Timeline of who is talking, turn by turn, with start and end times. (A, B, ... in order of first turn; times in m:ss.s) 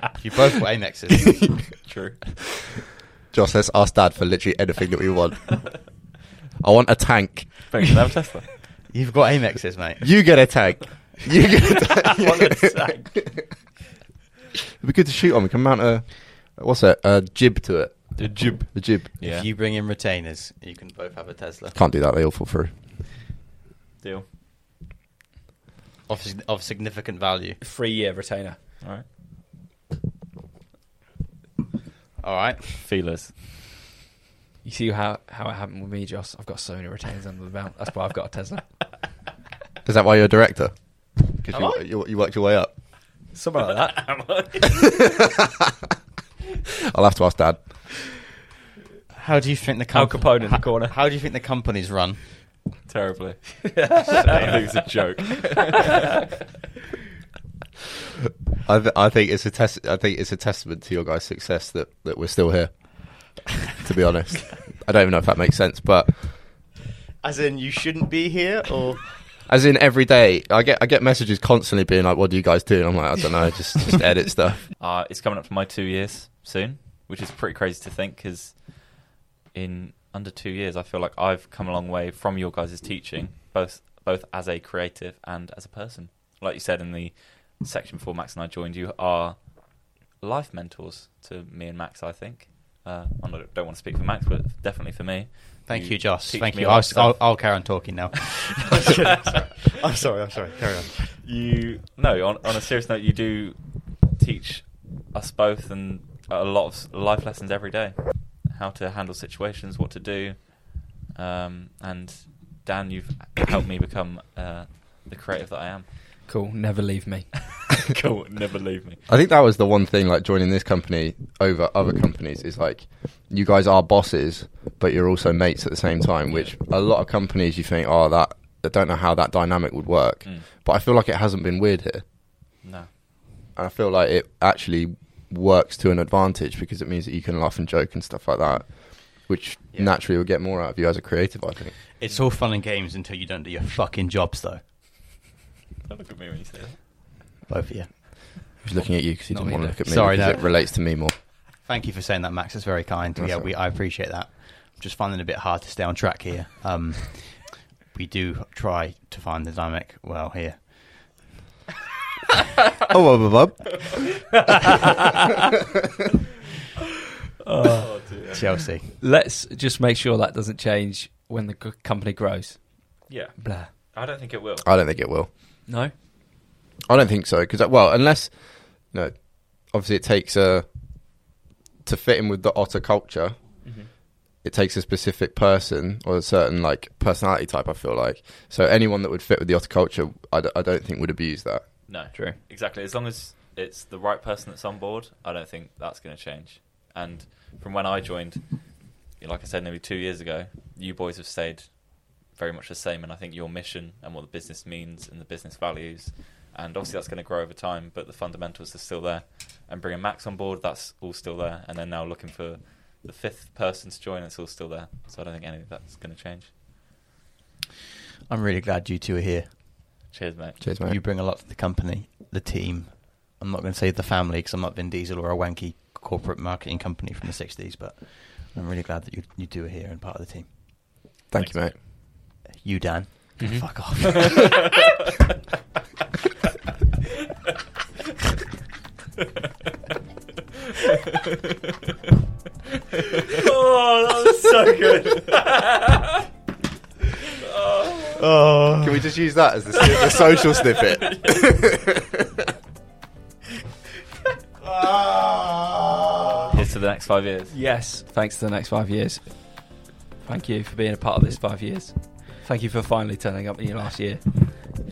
0:00.2-0:01.5 A
0:01.8-0:02.2 B
0:03.3-0:06.0 C
0:06.6-0:07.7 C
0:07.7-0:08.7 B
0:08.9-0:10.0 A
0:10.0-0:13.0 C
0:11.9-0:13.3 D
0:14.8-0:19.2 C
0:18.2-0:21.8 A
0:19.2-0:19.5 B
0:21.7-0:22.7 C
0:26.1-0:27.6 A
0:27.6-0:28.6 D
0:32.2-0:32.8 A
0:32.8-0:33.3 B
0:34.6-0:38.7 D
0:39.8-0:42.8 C
0:41.5-0:41.8 D
0:43.3-0:44.2 D
0:43.9-0:44.5 B
0:44.8-0:45.3 C
0:46.9-0:47.9 C
0:49.2-0:52.2 A
0:49.9-0:51.0 D
0:52.9-0:56.3 B
0:53.7-0:54.9 D
0:54.1-0:54.7 A
0:58.6-1:06.4 C
1:07.2-1:09.2 A
1:09.4-1:14.7 C
1:14.7-1:37.8 B
1:35.7-1:41.1 A
1:38.7-1:39.7 B
1:41.0-1:55.9 B
1:56.3-1:57.7 D
1:57.7-1:59.0 B
1:59.1-2:12.0 C
2:06.3-2:06.6 B
2:10.2-2:10.5 B
2:12.6-2:12.9 B
2:13.5-2:21.8 C
2:21.9-2:24.6 A
2:25.8-2:26.8 B
2:27.5-2:28.4 A
2:28.6-2:31.2 C
2:29.3-2:30.0 D
2:29.9-2:30.6 A
2:31.6-2:41.2 A
2:33.2-2:33.5 C
2:42.9-2:43.6 C
2:44.3-2:45.3 D
2:47.4-2:48.4 D
2:47.7-2:48.6 B
2:48.3-2:48.9 A
2:49.0-2:53.7 D
2:53.1-2:54.6 B
2:54.6-2:55.3 C
2:55.7-2:55.9 D
2:56.9-3:01.3 C
3:01.8-3:03.7 C
3:03.6-3:03.9 D
3:04.4-3:11.9 C
3:11.9-3:36.6 B
3:38.3-3:39.8 A
3:40.1-3:40.6 B
3:40.6-3:41.0 C
3:40.8-3:54.7 A
3:51.3-3:51.8 C
3:53.4-3:53.7 D
4:03.2-4:06.0 B
4:07.4-4:08.1 B
4:08.2-4:09.1 A
4:08.8-4:12.0 C
4:11.0-4:11.4 B
4:14.8-4:16.0 A
4:16.5-4:17.6 B
4:17.5-4:24.2 D